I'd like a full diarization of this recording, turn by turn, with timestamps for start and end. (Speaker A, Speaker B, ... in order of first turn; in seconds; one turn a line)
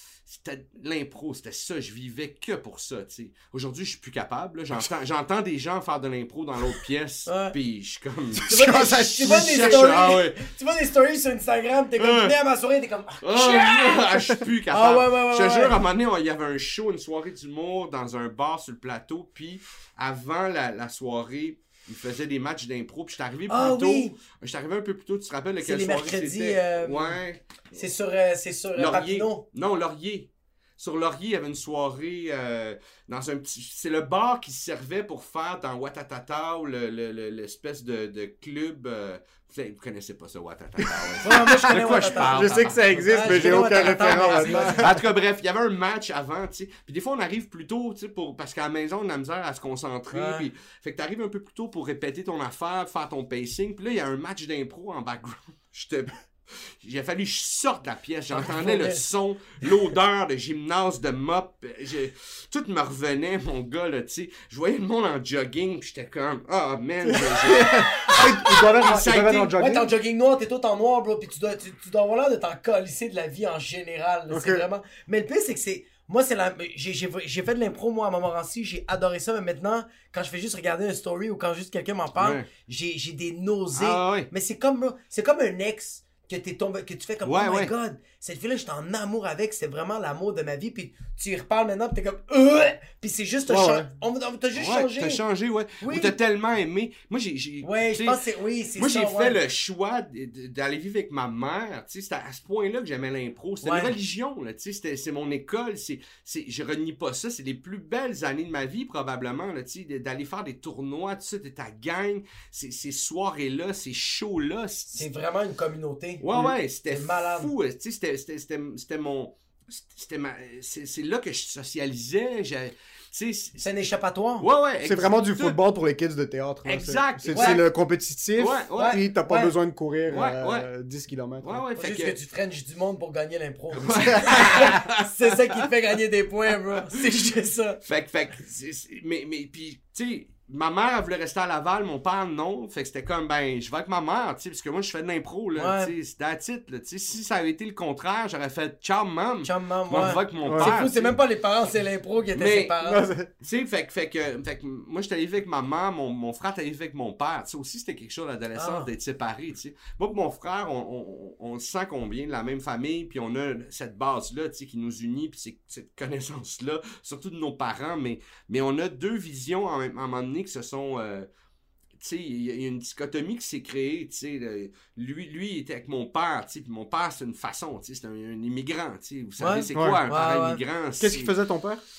Speaker A: 0.3-10.4
Speaker B: 7.3-7.5
Speaker C: 8.4-10.1
Speaker B: 8.5-14.2
Speaker A: 12.0-12.3
Speaker A: 13.2-27.8
Speaker B: 14.7-15.8
Speaker B: 23.5-24.1
Speaker B: 25.6-27.2
Speaker B: 27.7-29.4
Speaker A: 28.7-69.5
Speaker C: 40.8-45.0
Speaker B: 41.2-42.4
Speaker B: 43.1-44.9
Speaker B: 50.1-50.5
Speaker B: 58.3-59.0
Speaker C: 67.1-69.9
Speaker B: 68.1-68.9
Speaker B: 69.6-95.2
Speaker C: 74.3-74.6
Speaker A: 82.2-82.5
Speaker A: 83.7-84.3
Speaker A: 87.2-87.7
Speaker C: 93.5-93.9
Speaker A: 94.5-98.2
Speaker B: 95.8-96.1
Speaker B: 97.6-99.4
Speaker A: 98.8-115.0
Speaker B: 103.6-103.9
Speaker B: 114.9-116.2
Speaker A: 116.2-123.6
Speaker B: 116.9-117.5
Speaker B: 123.6-124.5
Speaker A: 124.4-125.6
Speaker C: 124.8-131.6
Speaker A: 126.7-127.7
Speaker B: 127.3-127.6
Speaker A: 128.4-129.0
Speaker B: 128.8-129.5
Speaker A: 130.1-130.7
Speaker A: 131.4-132.2
Speaker B: 131.8-137.8
Speaker A: 133.7-135.1
Speaker A: 137.8-151.2
Speaker B: 145.5-145.9
Speaker B: 149.4-153.0
Speaker C: 150.4-150.8
Speaker A: 152.3-152.7
Speaker C: 152.8-153.3
Speaker A: 153.4-171.3
Speaker B: 158.6-158.9
Speaker A: 172.0-181.3
Speaker B: 179.4-180.6
Speaker C: 179.7-180.0
Speaker C: 181.0-181.8